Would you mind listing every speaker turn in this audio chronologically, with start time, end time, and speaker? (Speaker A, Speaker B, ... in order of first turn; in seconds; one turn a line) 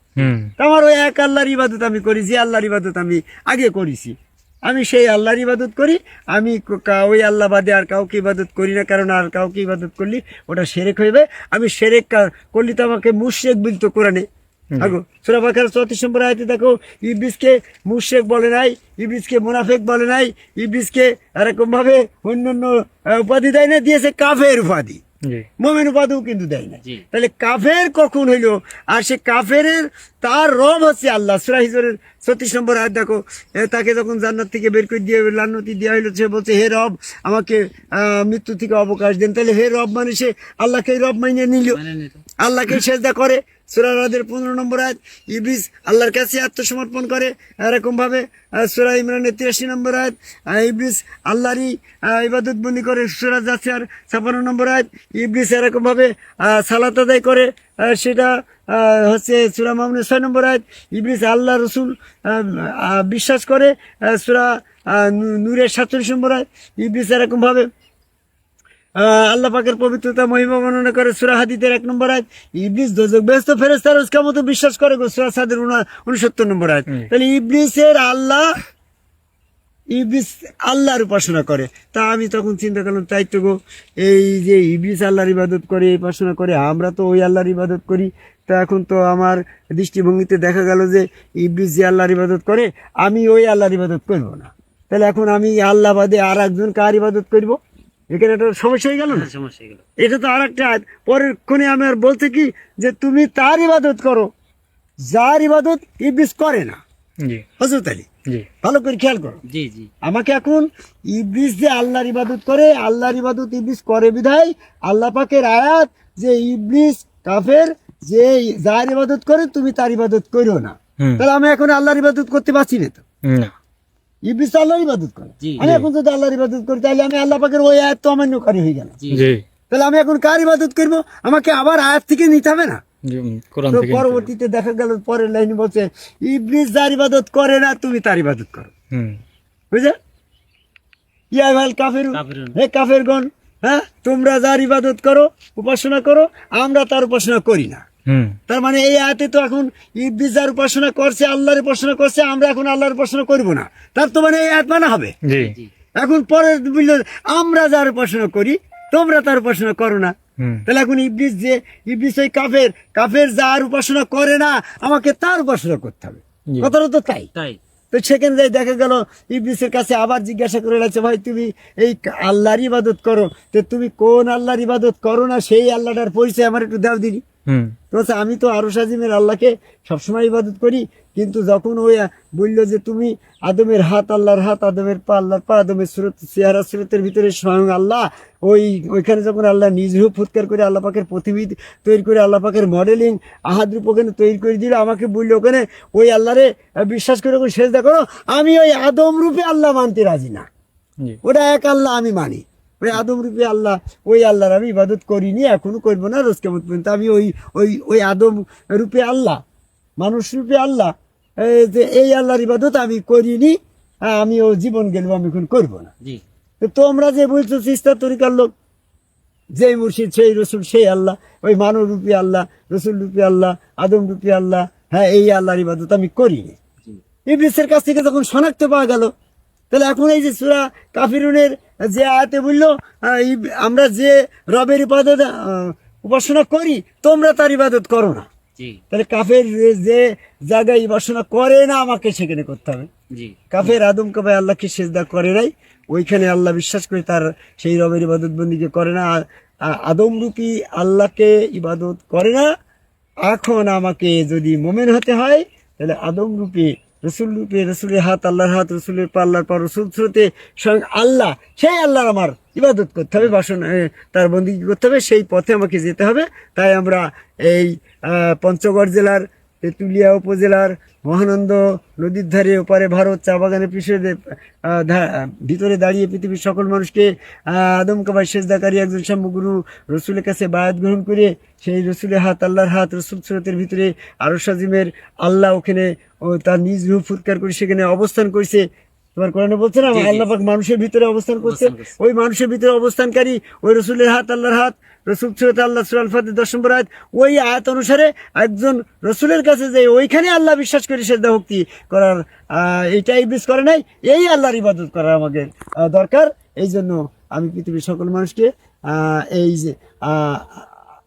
Speaker A: 0.2-0.5
Speaker B: 0.6-14.2
Speaker B: 14.8-25.0
Speaker B: 25.6-41.8
Speaker C: 41.7-42.2
Speaker B: 42.4-67.7
Speaker B: 69.0-78.5
Speaker B: 79.9-97.6
Speaker B: 98.1-99.3
Speaker C: 99.1-99.8
Speaker B: 100.0-104.3
Speaker B: 105.0-106.8
Speaker B: 107.6-108.1
Speaker B: 108.6-109.4
Speaker C: 109.5-109.9
Speaker B: 110.0-123.0
Speaker A: 123.2-123.5
Speaker B: 124.2-128.9
Speaker A: 125.6-125.9
Speaker C: 129.0-129.3
Speaker A: 129.1-129.4
Speaker B: 129.7-132.8
Speaker A: 133.1-134.3
Speaker B: 133.7-138.7
Speaker A: 138.9-139.2
Speaker B: 141.3-147.8
Speaker C: 142.1-142.6
Speaker A: 148.1-148.4
Speaker B: 148.5-155.2
Speaker A: 155.2-155.6
Speaker C: 155.4-155.7
Speaker B: 156.0-160.1
Speaker A: 160.4-160.7
Speaker B: 160.7-167.3
Speaker B: 167.9-177.2
Speaker A: 177.5-177.8
Speaker B: 177.9-200.5
Speaker B: 201.2-209.4
Speaker B: 210.0-215.9
Speaker B: 216.6-218.5
Speaker B: 219.6-226.6
Speaker B: 227.3-229.1
Speaker B: 229.7-238.3
Speaker B: 238.9-242.9
Speaker C: 243.1-243.8
Speaker B: 243.5-252.5
Speaker B: 253.3-288.6
Speaker B: 289.2-310.7
Speaker C: 289.9-290.3
Speaker C: 291.4-291.9